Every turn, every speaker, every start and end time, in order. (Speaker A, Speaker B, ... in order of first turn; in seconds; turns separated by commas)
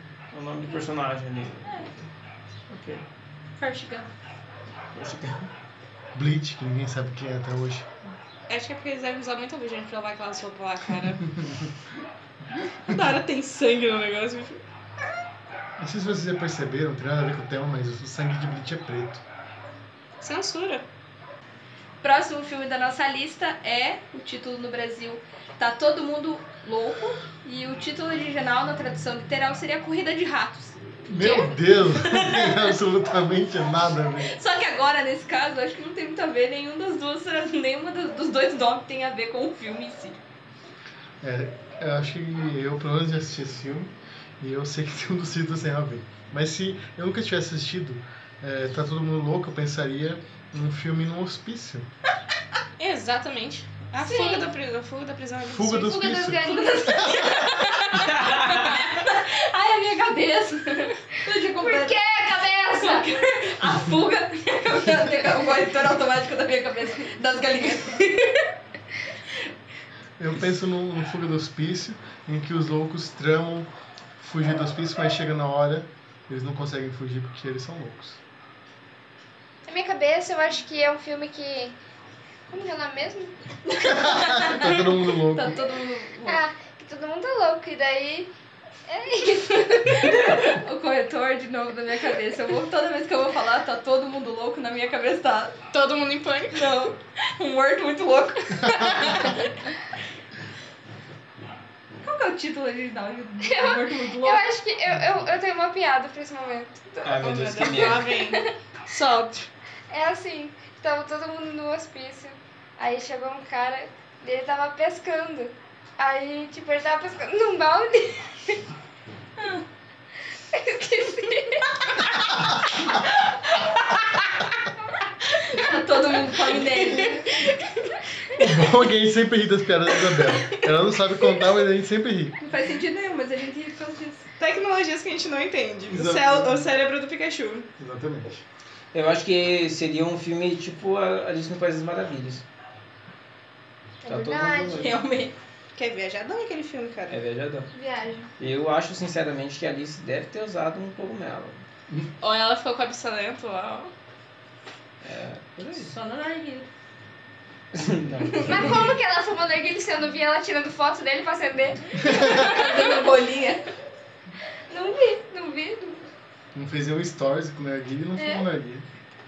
Speaker A: 0.3-1.9, Speaker B: 1.6-1.9, Speaker A: 2.7-3.0, Speaker B: 3.6-4.1, Speaker A: 4.9-5.5, Speaker C: 6.1-7.9, Speaker D: 8.5-11.3, Speaker D: 12.9-14.6, Speaker C: 15.8-19.2, Speaker D: 20.2-20.8, Speaker B: 22.0-32.7, Speaker C: 31.1-34.4, Speaker B: 34.2-40.2, Speaker C: 41.2-51.9, Speaker D: 52.8-55.8, Speaker E: 54.0-54.5, Speaker C: 55.4-57.6, Speaker E: 55.7-57.1, Speaker B: 56.4-68.4, Speaker A: 57.9-58.8, Speaker E: 61.5-63.1, Speaker C: 70.2-78.2, Speaker E: 79.7-81.8, Speaker E: 82.5-83.3, Speaker B: 83.7-86.4, Speaker C: 83.8-85.6, Speaker E: 86.2-88.3, Speaker E: 88.9-90.1, Speaker B: 89.6-95.6, Speaker A: 89.9-90.6, Speaker D: 95.7-96.7, Speaker B: 96.5-99.5, Speaker B: 102.0-104.5, Speaker E: 103.5-108.4, Speaker A: 107.0-108.1, Speaker D: 107.2-109.5, Speaker E: 109.9-118.6, Speaker B: 119.4-119.6, Speaker E: 120.5-121.7, Speaker B: 125.4-127.4, Speaker D: 126.5-127.6, Speaker C: 128.3-132.4, Speaker D: 130.0-130.6, Speaker B: 132.4-134.2, Speaker D: 134.4-137.7, Speaker C: 135.9-136.7, Speaker C: 137.8-138.4, Speaker A: 138.9-142.4, Speaker E: 144.0-145.0, Speaker A: 144.1-144.9, Speaker B: 144.7-145.3, Speaker D: 145.7-147.2, Speaker A: 147.1-147.7, Speaker E: 147.7-148.3, Speaker A: 148.4-151.6, Speaker D: 152.2-153.9, Speaker A: 155.0-155.9, Speaker B: 155.7-156.7, Speaker A: 157.7-158.9, Speaker B: 158.2-158.8, Speaker E: 158.4-163.1, Speaker C: 162.0-162.4, Speaker B: 162.1-163.7, Speaker E: 164.7-166.1, Speaker C: 166.5-168.8, Speaker E: 168.2-168.4